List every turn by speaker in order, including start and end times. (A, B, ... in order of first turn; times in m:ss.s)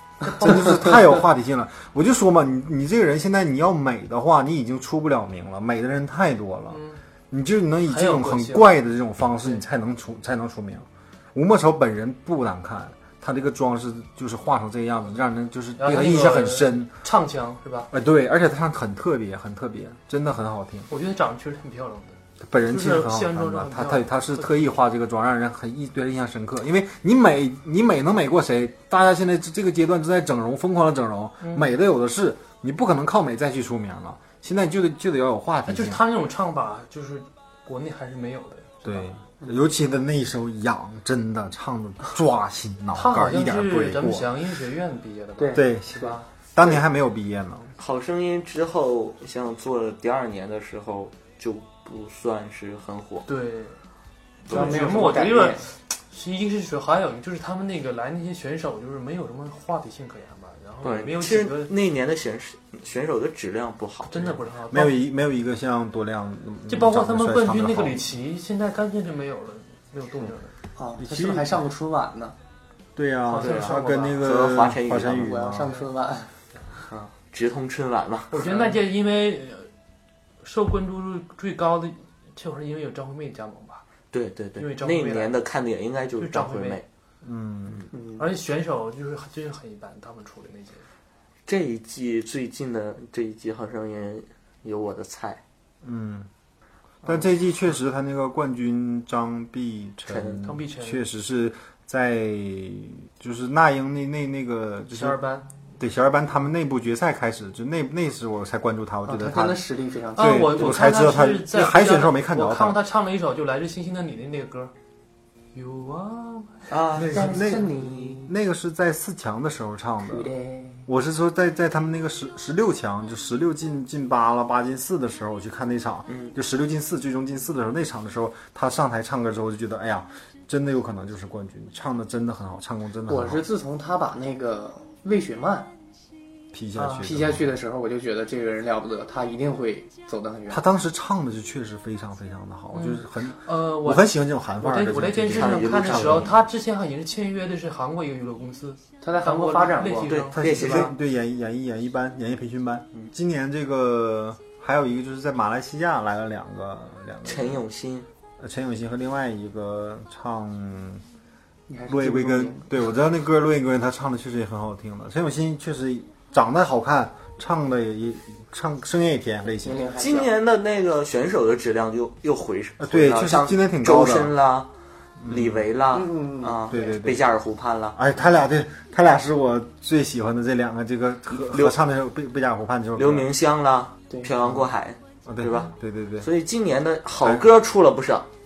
0:00.2-0:01.3 A
0:00.4-0:16.9 B
0:06.7-0:07.0 A
0:07.8-0:08.7 A
0:15.8-0:17.9 A
0:17.9-0:20.9 B
0:20.9-0:24.7 A
0:22.4-0:36.0 B
0:31.4-0:31.7 A
0:35.7-0:39.1 A
0:38.8-0:44.3 B
0:39.4-0:39.7 C
0:42.9-0:46.2 A
0:45.4-0:46.8 C
0:45.5-0:47.7 B
0:47.8-0:53.3 D
0:53.3-0:53.8 A
0:54.4-0:54.9 D
0:54.4-1:01.7 A
0:54.5-0:55.7 C
1:00.8-1:04.1 D
1:04.1-1:05.0 A
1:04.7-1:08.0 B
1:06.7-1:10.5 A
1:10.8-1:12.3 C
1:11.0-1:11.6 B
1:13.0-1:15.8 B
1:13.3-1:14.2 A
1:13.3-1:15.4 D
1:15.1-1:16.3 C
1:16.9-1:18.5 D
1:18.3-1:19.7 A
1:20.4-1:23.8 A
1:24.1-1:26.8 D
1:24.6-1:25.4 A
1:26.2-1:26.8 A
1:27.2-1:27.9 B
1:27.9-1:28.3 C
1:28.2-1:30.8 A
1:31.5-1:35.4 D
1:35.8-1:36.3 B
1:37.0-1:45.2 B
1:40.1-1:40.5 D
1:40.4-1:41.0 A
1:45.0-1:45.4 A
1:45.8-1:49.6 B
1:49.0-1:50.7 C
1:50.2-1:54.7 A
1:50.2-1:52.8 B
1:55.5-1:56.7 A
1:56.7-1:57.6 D
1:56.9-1:58.3 C
1:57.0-2:00.3 B
2:00.0-2:00.9 C
2:00.8-2:13.4 B
2:06.1-2:06.3 D
2:13.1-2:15.7 C
2:16.5-2:17.5 B
2:16.8-2:20.6 C
2:20.5-2:26.3 B
2:22.7-2:30.9 A
2:25.3-2:26.3 D
2:29.0-2:30.9 C
2:30.1-2:30.9 D
2:30.3-2:37.6 B
2:37.2-2:38.0 D
2:38.4-2:41.0 B
2:41.7-2:42.8 C
2:41.9-2:49.9 B
2:49.6-2:50.3 C
2:50.0-2:54.7 D
2:52.8-2:54.3 B
2:55.2-2:55.6 B
2:55.2-2:58.0 D
2:55.9-2:56.9 C
2:56.7-2:57.3 B
2:57.9-3:03.3 B
3:01.3-3:01.8 D
3:03.0-3:08.3 D
3:04.4-3:04.7 B
3:05.2-3:06.3 B